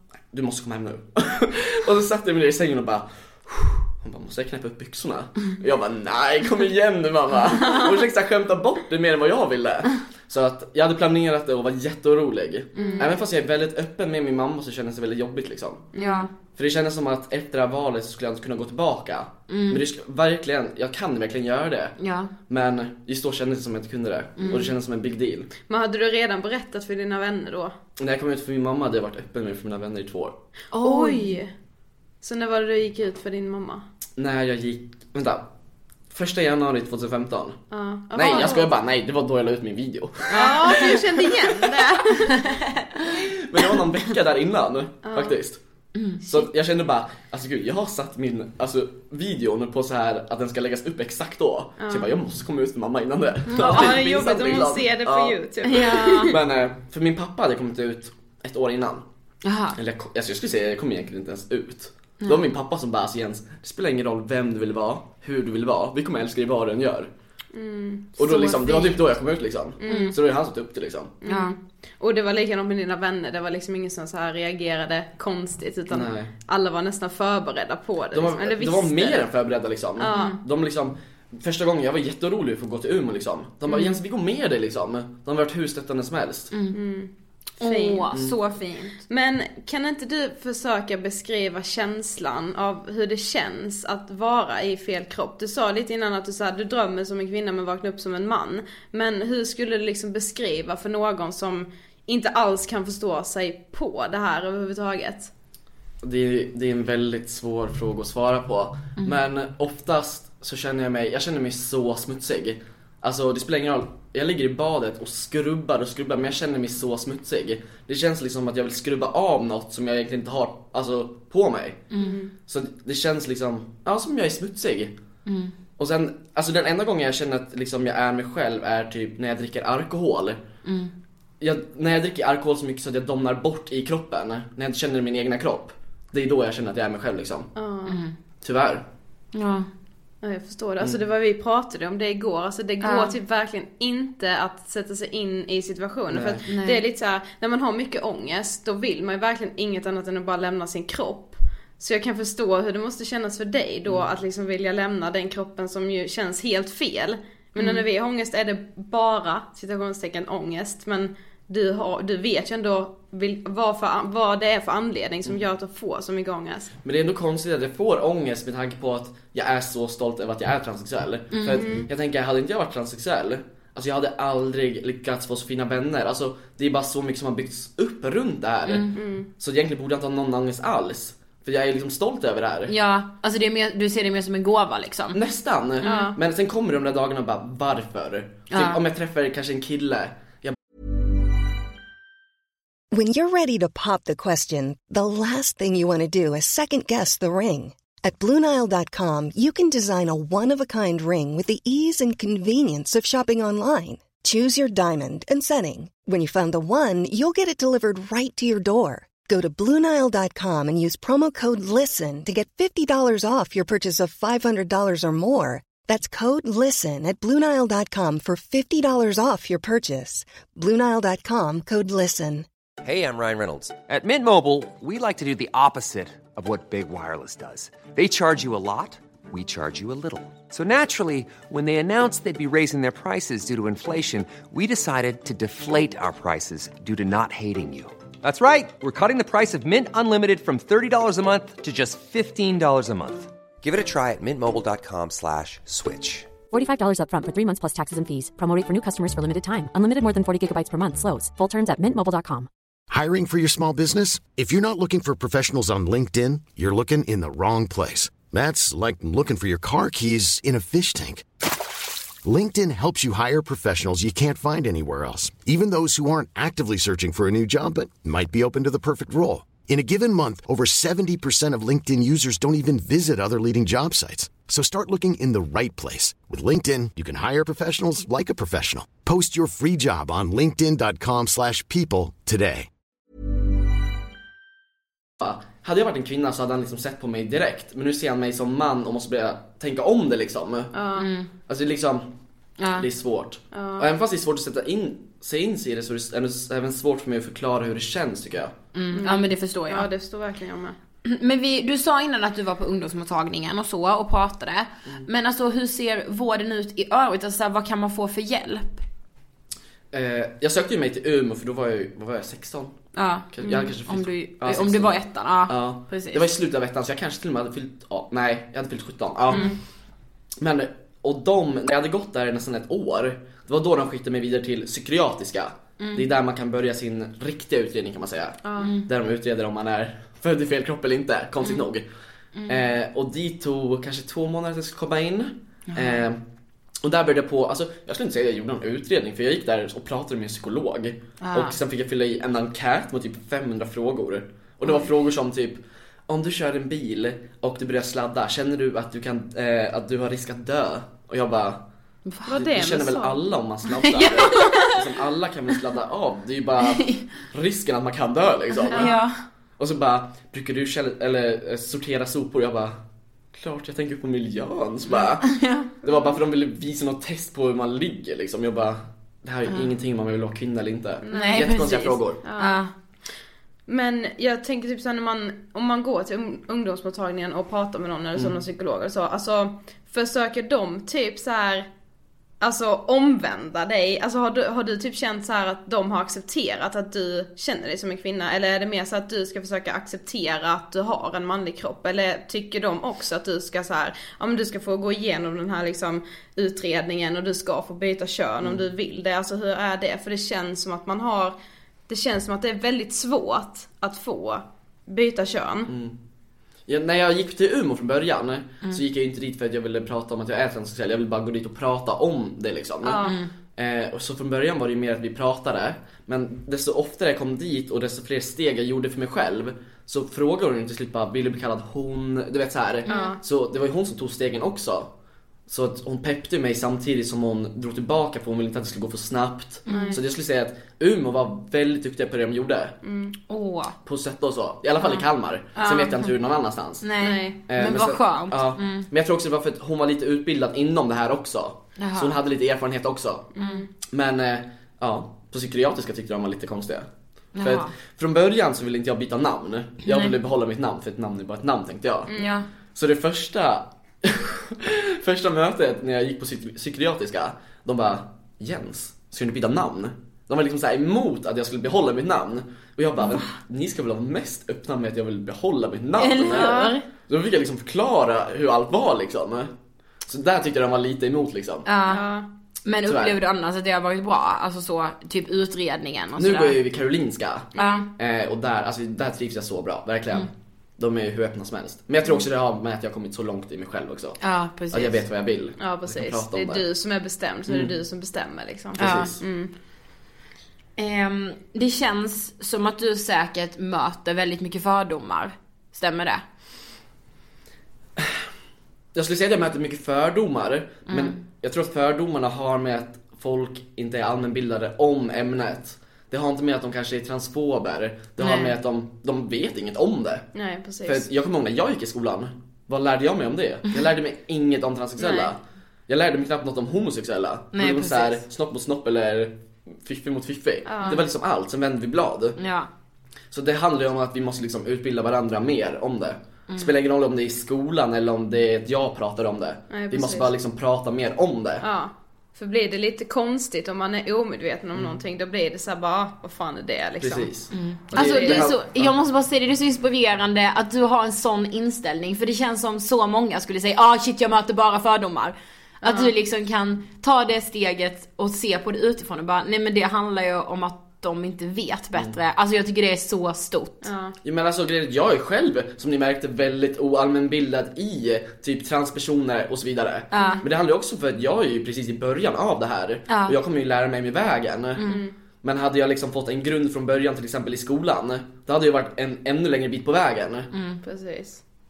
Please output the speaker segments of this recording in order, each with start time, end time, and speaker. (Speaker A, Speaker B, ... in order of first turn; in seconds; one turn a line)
Speaker A: 0.3-15.9
Speaker B: 12.8-13.1
Speaker C: 12.8-13.1
Speaker C: 15.9-16.3
Speaker B: 16.0-16.3
Speaker A: 16.6-22.0
Speaker B: 19.5-19.8
Speaker B: 22.0-22.3
Speaker A: 22.5-25.5
Speaker B: 24.4-24.7
Speaker C: 25.7-27.8
Speaker A: 28.0-30.4
Speaker B: 30.7-31.4
Speaker C: 30.8-31.5
Speaker C: 32.2-33.9
Speaker A: 34.2-35.5
Speaker A: 36.1-37.6
Speaker C: 37.7-38.7
Speaker A: 38.1-41.7
Speaker B: 40.3-40.9
Speaker C: 40.3-42.5
Speaker B: 42.4-43.0
Speaker A: 43.1-45.6
Speaker C: 45.0-45.4
Speaker B: 46.0-46.2
Speaker A: 46.2-55.4
Speaker C: 51.8-52.1
Speaker B: 53.5-54.0
Speaker C: 53.5-56.4
Speaker B: 55.6-56.4
Speaker A: 56.3-59.0
Speaker B: 59.4-59.8
Speaker A: 59.8-67.1
Speaker C: 67.5-68.2
Speaker A: 68.2-71.2
Speaker B: 68.2-68.9
Speaker C: 69.8-70.2
Speaker B: 69.9-70.2
Speaker C: 71.2-79.3
Speaker B: 71.2-71.5
Speaker A: 75.9-76.3
Speaker A: 78.1-86.5
Speaker C: 80.0-80.4
Speaker B: 80.1-80.4
Speaker B: 86.5-86.8
Speaker C: 86.7-88.1
Speaker B: 87.6-89.0
Speaker C: 89.1-105.3
Speaker A: 106.0-121.9
Speaker B: 121.9-122.2
Speaker C: 122.0-122.3
Speaker A: 122.5-124.9
Speaker B: 125.3-125.5
Speaker A: 125.8-130.4
Speaker B: 130.7-130.9
Speaker A: 131.4-137.5
Speaker C: 137.6-138.0
Speaker B: 137.9-138.2
Speaker A: 138.4-138.9
Speaker B: 139.3-139.7
Speaker C: 140.2-166.7
Speaker B: 142.8-143.2
Speaker A: 146.1-146.4
Speaker B: 146.5-146.8
Speaker B: 157.6-157.8
Speaker A: 166.8-182.7
Speaker B: 171.3-171.6
Speaker C: 171.5-171.9
Speaker B: 178.7-178.9
Speaker C: 178.9-179.3
Speaker B: 182.7-185.2
Speaker A: 185.1-190.6
Speaker B: 185.8-186.1
Speaker C: 185.8-186.2
Speaker B: 188.5-188.8
Speaker D: 192.9-222.5
Speaker E: 222.8-246.3
Speaker F: 246.5-252.5
Speaker G: 252.9-261.2
Speaker G: 262.2-282.7
Speaker A: 285.2-290.7
Speaker C: 290.7-291.1
Speaker B: 291.0-291.3
Speaker A: 291.5-292.1
Speaker B: 292.6-292.9
Speaker A: 292.8-298.5
Speaker C: 293.5-293.9
Speaker B: 298.7-299.9
Speaker C: 298.9-300.8
Speaker B: 301.0-308.8
Speaker A: 309.9-312.8
Speaker B: 312.9-313.3
Speaker A: 313.3-319.5
Speaker C: 313.4-313.7
Speaker B: 313.8-316.2
Speaker B: 319.3-319.6
Speaker C: 319.3-319.6
Speaker A: 320.4-331.9
Speaker B: 325.8-326.1
Speaker C: 328.4-328.7
Speaker B: 328.6-328.9
Speaker B: 332.4-332.6
Speaker A: 332.5-336.2
Speaker B: 335.7-336.1
Speaker A: 336.8-351.6
Speaker B: 341.2-341.6
Speaker B: 352.1-352.3
Speaker C: 352.3-353.2
Speaker A: 352.3-358.9
Speaker B: 353.9-354.8
Speaker C: 358.6-359.0
Speaker B: 358.7-359.1
Speaker A: 359.6-362.8
Speaker A: 363.4-372.2
Speaker B: 365.2-365.7
Speaker C: 365.9-366.1
Speaker B: 369.5-369.7
Speaker C: 371.0-372.6
Speaker B: 371.1-372.7
Speaker C: 373.7-381.7
Speaker C: 382.4-401.4
Speaker C: 401.9-405.7
Speaker A: 405.7-406.0
Speaker A: 406.7-424.9
Speaker C: 412.8-413.2
Speaker B: 413.0-413.3
Speaker B: 422.9-423.2
Speaker C: 422.9-423.2
Speaker A: 425.5-432.8
Speaker B: 429.7-430.0
Speaker C: 429.7-430.0
Speaker C: 432.8-433.2
Speaker B: 433.3-433.8
Speaker A: 433.9-436.9
Speaker B: 435.6-436.1
Speaker B: 436.8-438.9
Speaker C: 437.0-437.4
Speaker A: 437.5-443.3
Speaker B: 441.8-442.1
Speaker C: 443.4-443.7
Speaker B: 443.4-443.6
Speaker A: 443.9-446.9
Speaker B: 447.4-447.7
Speaker A: 447.4-452.1
Speaker B: 449.9-450.1
Speaker B: 452.1-452.5
Speaker A: 452.8-466.5
Speaker B: 466.0-466.8
Speaker C: 466.2-466.9
Speaker A: 467.1-469.5
Speaker A: 470.1-471.7
Speaker B: 471.6-472.0
Speaker C: 471.9-472.3
Speaker B: 472.6-476.6
Speaker A: 472.9-473.2
Speaker A: 476.2-486.6
Speaker B: 477.6-477.9
Speaker C: 477.6-477.9
Speaker B: 484.2-485.0
Speaker C: 485.6-489.5
Speaker A: 487.5-487.8
Speaker A: 488.8-489.2
Speaker B: 488.8-489.1
Speaker B: 490.8-496.2
Speaker A: 498.9-510.3
Speaker B: 500.9-501.2
Speaker B: 508.2-508.6
Speaker C: 510.3-511.1
Speaker A: 510.9-522.4
Speaker C: 515.0-515.3
Speaker B: 517.5-518.2
Speaker C: 520.7-521.0
Speaker B: 522.4-522.7
Speaker A: 523.3-531.7
Speaker C: 529.7-530.3
Speaker C: 531.6-537.3
Speaker A: 537.0-539.0
Speaker B: 537.5-553.9
Speaker C: 537.9-538.5
Speaker C: 545.9-546.1
Speaker C: 553.8-554.2
Speaker A: 554.2-564.8
Speaker B: 560.1-560.4
Speaker C: 560.1-560.4
Speaker B: 563.1-563.4
Speaker B: 564.8-565.0
Speaker C: 564.8-565.1
Speaker A: 565.4-570.5
Speaker B: 570.5-570.8
Speaker C: 570.8-571.4